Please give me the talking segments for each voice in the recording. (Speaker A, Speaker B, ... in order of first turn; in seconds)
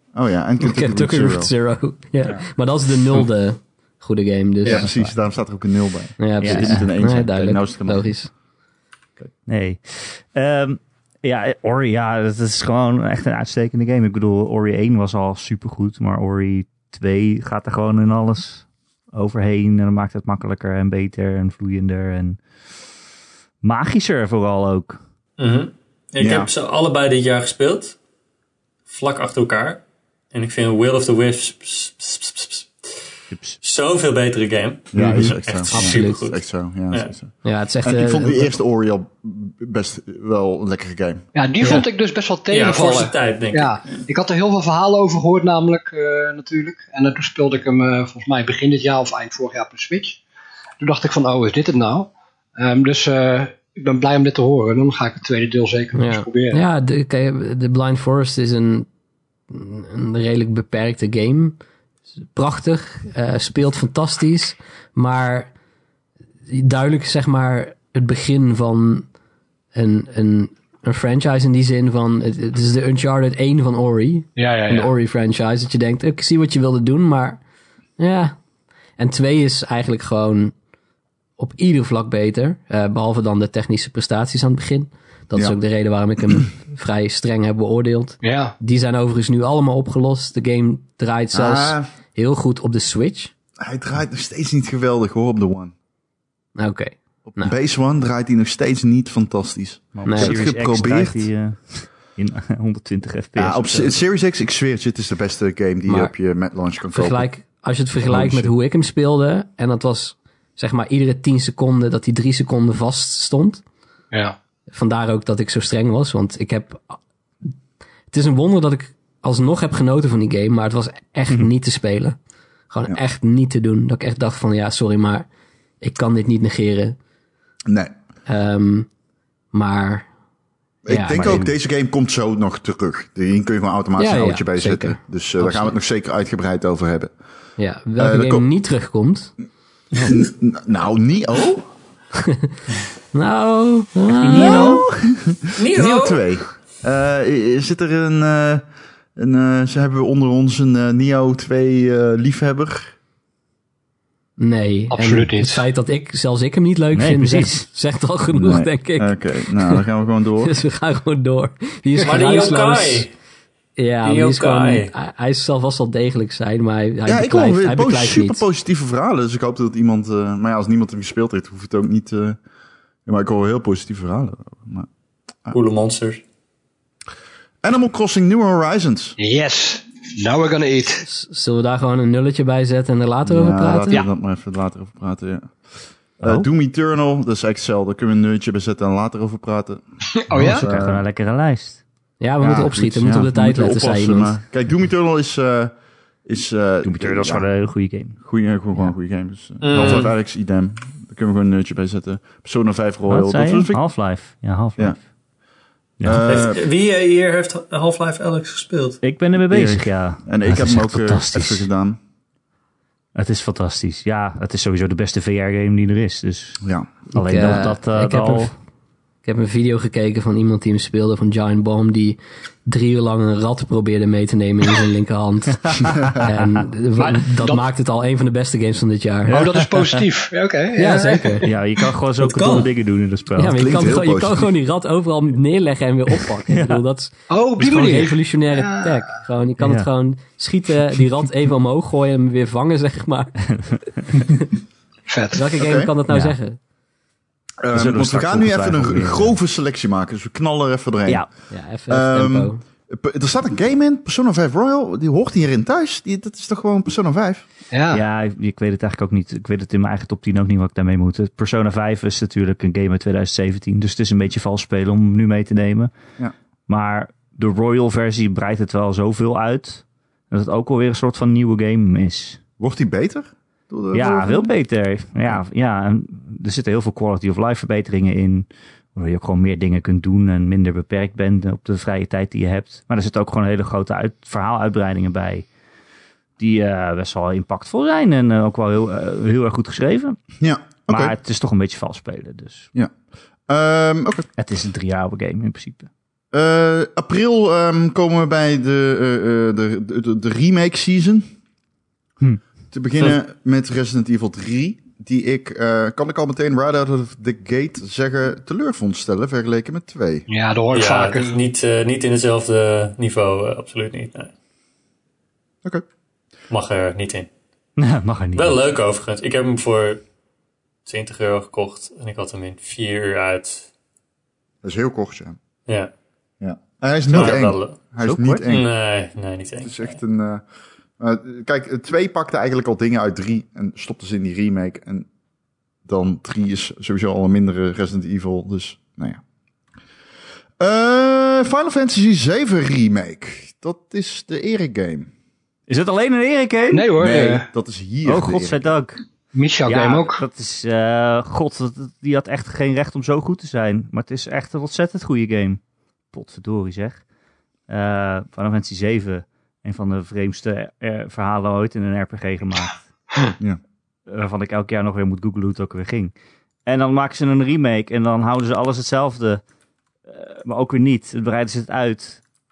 Speaker A: 0.1-1.5, 4.7-8.2, 26.2-26.5, 34.9-41.2, 91.3-91.8, 93.6-95.7, 97.3-101.3, 103.3-107.3, 108.0-108.5, 127.7-127.9, 130.8-137.1, 138.0-138.5, 140.0-141.7, 144.3-148.6, 149.2-152.9, 158.3-160.6, 167.1-172.4, 173.1-174.9, 177.6-179.2, 183.2-185.6, 186.2-191.0, 192.4-195.7, 196.2-197.4, 198.2-203.8, 206.0-206.6, 210.2-212.0, 216.6-216.9, 233.5-234.5, 245.6-245.9, 247.6-251.3, 251.9-257.4, 272.6-274.5, 290.4-291.1, 293.5-294.3, 296.3-301.3, 302.7-310.3, 324.6-325.4, 326.4-328.6, 329.6-330.4, 331.0-335.1, 335.9-339.2, 340.6-345.1, 347.0-348.7
Speaker B: 0.6-5.1, 6.2-8.3, 35.0-36.2, 37.4-38.6, 55.9-58.9, 59.5-61.6, 62.3-65.5, 66.5-69.1, 69.7-77.4, 78.0-78.4, 79.0-80.5, 81.4-93.3, 96.5-97.5, 100.0-100.4, 105.9-106.1, 106.9-113.6, 114.7-117.0, 118.1-122.2, 122.7-125.3, 125.8-127.0, 128.3-128.9, 129.5-130.1, 130.9-131.4, 134.0-135.7, 137.6-139.3, 142.2-142.5, 143.1-144.8, 154.4-159.8, 160.4-163.1, 163.8-168.4, 181.1-184.0, 192.2-194.4, 217.1-218.5, 219.2-229.4, 230.8-231.5, 233.3-243.4, 245.3-246.6, 251.5-252.6
Speaker C: 6.4-6.9, 9.4-22.4, 23.6-25.0, 33.3-33.6, 99.9-104.0, 131.1-131.5, 144.2-144.9, 156.9-157.7, 186.2-186.5, 190.3-191.8, 196.8-198.2, 203.1-205.1, 206.0-206.4, 209.0-211.7, 213.1-216.6, 217.1-218.5, 225.7-226.5, 229.3-230.0, 231.4-233.6, 236.5-236.8, 239.6-239.9, 243.5-244.2, 246.1-246.4, 247.7-249.4, 257.9-265.9, 266.7-272.4, 273.9-285.5, 286.4-290.2, 290.9-292.7, 294.4-295.9, 317.8-318.7, 327.1-327.4, 328.0-328.5, 345.7-346.9, 348.0-349.0, 349.6-357.0, 357.7-362.8, 364.1-366.1, 366.6-369.4, 370.0-372.2
Speaker D: 25.4-27.9, 28.9-29.8, 30.3-32.7, 33.6-37.1, 41.6-41.9, 42.5-44.0, 145.6-146.2, 162.0-163.1, 164.0-164.9, 175.5-176.2, 199.6-200.1, 206.2-209.8, 310.7-314.3, 316.5-317.3, 318.3-320.0, 320.9-323.7, 325.7-325.9, 327.1-327.8, 328.4-329.9
Speaker E: 41.3-50.2, 50.8-56.6, 74.3-74.9, 88.2-88.5, 114.1-114.4, 154.9-155.6, 179.2-181.1, 190.2-190.6, 227.0-227.7, 229.3-232.7, 237.3-239.0, 245.1-245.5, 257.7-258.0, 310.3-311.4, 346.7-347.5, 349.3-350.2